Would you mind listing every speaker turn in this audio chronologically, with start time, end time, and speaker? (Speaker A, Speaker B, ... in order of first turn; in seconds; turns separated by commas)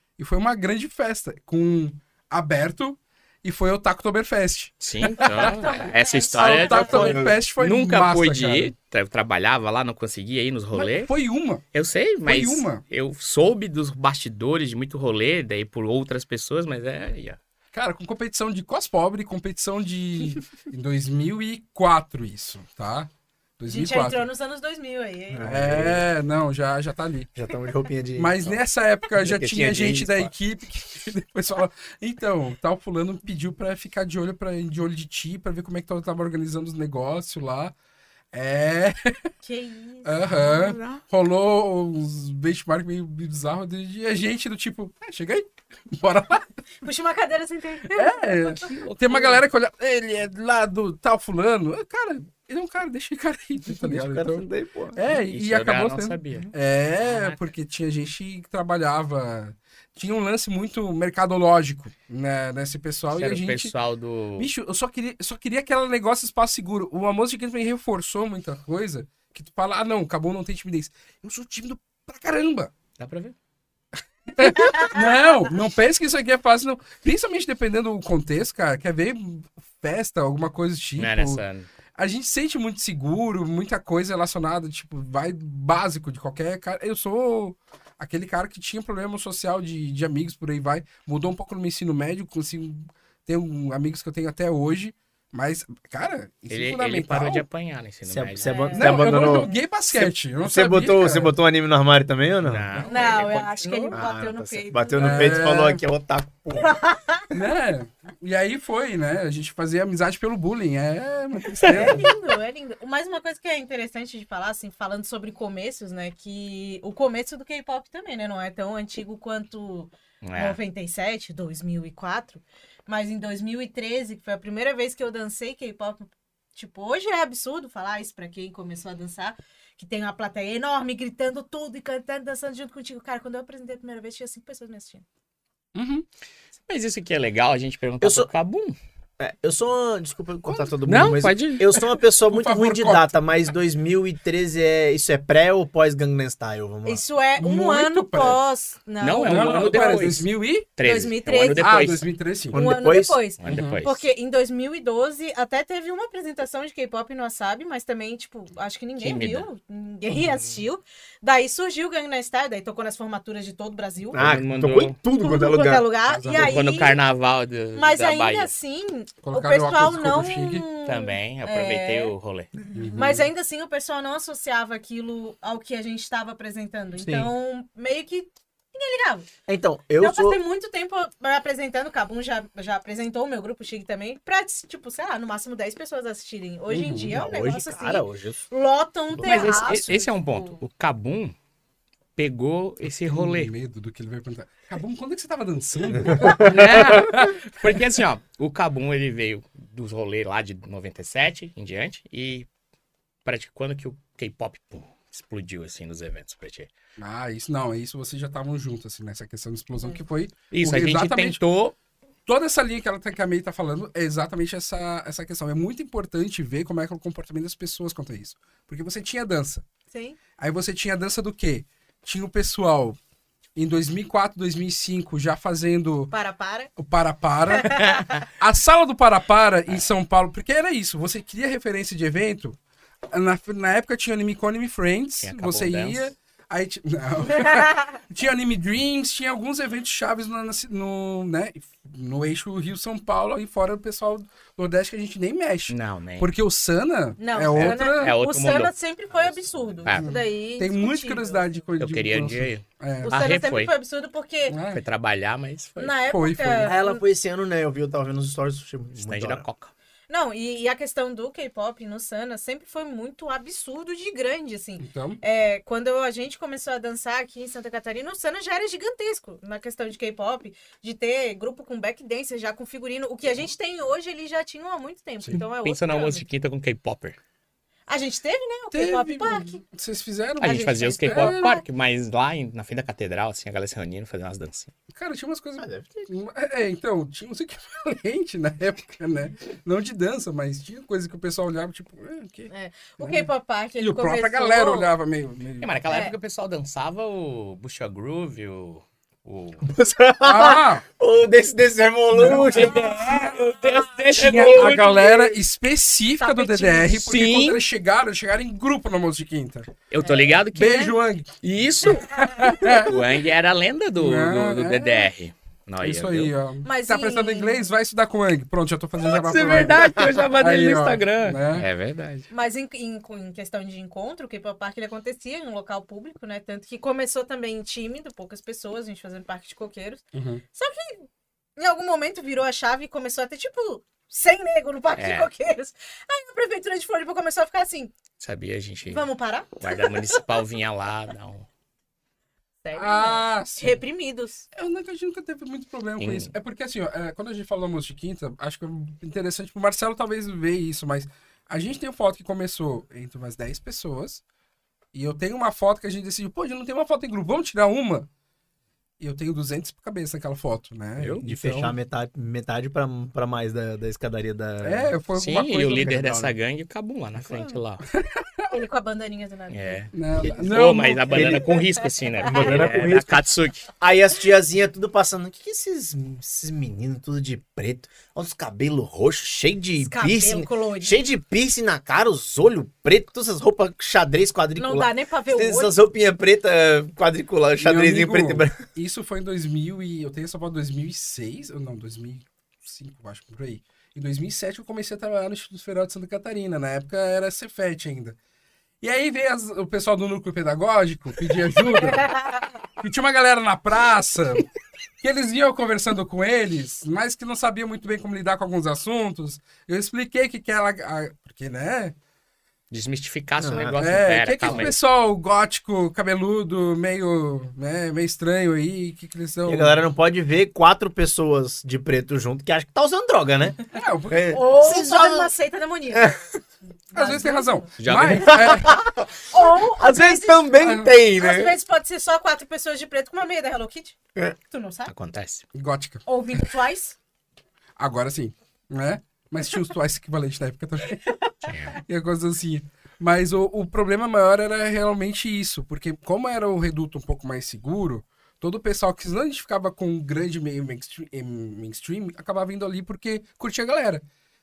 Speaker A: 0.2-5.6, Speaker B: 4.8-11.1, Speaker C: 5.2-7.2, Speaker A: 6.3-8.7, Speaker D: 6.6-7.3, Speaker A: 10.7-11.7, Speaker B: 11.7-17.4, Speaker A: 12.2-12.8, Speaker A: 17.7-24.2, Speaker C: 23.7-25.5, Speaker D: 25.3-26.0, Speaker A: 25.4-27.3, Speaker D: 27.4-28.6, Speaker A: 28.1-37.7, Speaker D: 29.1-30.3, Speaker A: 38.3-39.3, Speaker C: 39.4-40.7, Speaker A: 40.0-46.6, Speaker B: 40.4-41.0, Speaker C: 46.8-48.6, Speaker A: 47.9-63.7, Speaker B: 48.6-49.4, Speaker D: 53.6-55.0, Speaker B: 55.2-56.5, Speaker B: 57.0-57.4, Speaker B: 63.1-64.5, Speaker A: 64.4-72.7, Speaker B: 73.0-73.3, Speaker A: 74.3-81.4, Speaker C: 74.6-75.3, Speaker B: 81.0-81.7, Speaker A: 82.0-97.5, Speaker B: 96.5-98.5, Speaker D: 98.0-102.6, Speaker C: 98.4-99.5, Speaker A: 98.7-101.3, Speaker B: 102.4-104.0, Speaker C: 102.9-105.3, Speaker D: 103.9-106.7, Speaker A: 105.0-105.8, Speaker C: 106.6-107.3, Speaker A: 107.3-112.1, Speaker C: 111.6-135.0, Speaker D: 111.6-112.0, Speaker B: 120.2-120.6, Speaker A: 135.7-136.1, Speaker B: 136.7-138.8, Speaker D: 138.0-138.3, Speaker D: 139.2-147.0, Speaker A: 140.4-140.8, Speaker B: 140.8-141.8, Speaker A: 142.2-143.1, Speaker C: 146.8-150.1, Speaker A: 147.4-148.4, Speaker B: 149.0-152.0, Speaker A: 149.2-150.7, Speaker C: 150.8-151.9, Speaker A: 151.5-152.6, Speaker D: 152.5-153.2, Speaker C: 152.5-164.2, Speaker B: 153.4-154.0, Speaker A: 153.5-153.8, Speaker B: 159.0-159.4, Speaker D: 164.1-165.9, Speaker B: 164.1-165.0, Speaker C: 165.2-167.0, Speaker A: 166.0-166.6, Speaker B: 166.3-168.5, Speaker C: 167.7-172.1, Speaker A: 169.2-170.7, Speaker B: 170.8-172.5, Speaker C: 172.7-179.3, Speaker A: 172.7-173.3, Speaker D: 177.0-177.3, Speaker D: 179.5-180.4, Speaker C: 180.0-190.5, Speaker A: 186.7-187.2, Speaker D: 187.1-188.4, Speaker B: 189.2-191.3, Speaker D: 189.2-189.7, Speaker B: 192.2-193.5, Speaker A: 192.8-197.8, Speaker D: 196.1-196.6, Speaker B: 196.2-202.5, Speaker B: 203.2-206.7, Speaker A: 207.0-211.4, Speaker B: 210.5-211.7, Speaker A: 212.2-219.6, Speaker C: 219.9-220.2, Speaker A: 220.4-223.0, Speaker A: 223.6-226.1, Speaker C: 226.1-226.7, Speaker A: 226.8-227.8, Speaker C: 227.5-228.0, Speaker B: 227.8-228.2, Speaker A: 228.4-232.6, Speaker A: 233.1-248.2, Speaker B: 235.2-236.1, Speaker C: 237.3-237.9, Speaker B: 245.7-246.3, Speaker C: 247.2-251.5, Speaker B: 247.5-250.1, Speaker A: 249.9-253.2, Speaker B: 251.8-253.7, Speaker C: 253.0-254.6, Speaker A: 254.5-254.8, Speaker B: 254.7-255.9, Speaker C: 255.8-257.0, Speaker A: 256.1-256.8, Speaker D: 256.6-259.4, Speaker B: 258.9-259.7, Speaker C: 260.1-276.2, Speaker A: 264.8-265.2, Speaker B: 275.4-277.2, Speaker C: 277.9-279.6, Speaker A: 278.7-281.6, Speaker B: 280.4-284.7, Speaker C: 280.4-281.6, Speaker A: 284.9-295.7, Speaker D: 285.6-286.1, Speaker C: 292.5-294.9, Speaker B: 295.6-299.7, Speaker C: 295.9-296.1, Speaker D: 299.6-303.0, Speaker A: 300.2-300.8, Speaker A: 302.1-302.7, Speaker B: 302.3-305.3, Speaker A: 304.1-309.7, Speaker C: 306.2-307.0, Speaker B: 307.0-307.6, Speaker B: 309.9-316.3, Speaker A: 310.5-311.3, Speaker A: 311.9-312.9, Speaker A: 314.0-315.1, Speaker A: 315.8-321.6, Speaker C: 316.6-317.6, Speaker B: 319.0-322.2, Speaker C: 322.3-330.0, Speaker A: 330.1-330.4, Speaker C: 330.5-337.9, Speaker B: 334.9-335.3, Speaker B: 338.2-339.1, Speaker C: 338.9-340.2, Speaker B: 339.6-341.5, Speaker C: 342.6-344.4, Speaker A: 342.7-343.8, Speaker A: 344.5-354.2, Speaker B: 346.0-346.3, Speaker A: 354.9-358.1, Speaker A: 359.0-361.7, Speaker B: 361.0-361.2, Speaker D: 361.2-364.9, Speaker A: 364.6-366.2, Speaker B: 365.1-367.8, Speaker D: 365.8-366.3, Speaker A: 367.9-368.5, Speaker C: 368.5-369.8, Speaker B: 369.5-373.7, Speaker A: 369.9-371.1, Speaker D: 371.1-371.6, Speaker D: 372.3-373.2, Speaker D: 373.8-388.6, Speaker C: 379.8-381.0, Speaker C: 384.6-385.7, Speaker A: 387.6-398.1, Speaker A: 398.8-402.1, Speaker C: 401.9-402.2, Speaker A: 402.8-404.5, Speaker A: 405.0-411.9, Speaker B: 412.7-414.7, Speaker D: 413.4-413.8, Speaker A: 413.8-419.9, Speaker D: 414.4-414.7, Speaker D: 419.4-423.6, Speaker A: 423.7-424.3, Speaker D: 424.1-425.3, Speaker C: 424.3-426.2, Speaker C: 426.9-427.7, Speaker A: 426.9-428.8, Speaker B: 427.8-428.4, Speaker D: 428.2-429.0, Speaker C: 428.4-433.9, Speaker D: 429.8-431.5, Speaker A: 430.6-430.9, Speaker C: 434.5-434.9, Speaker B: 434.9-435.4, Speaker A: 435.5-436.0, Speaker C: 436.1-437.0, Speaker A: 437.8-441.1, Speaker C: 441.1-441.4, Speaker B: 441.4-441.8, Speaker A: 441.7-454.0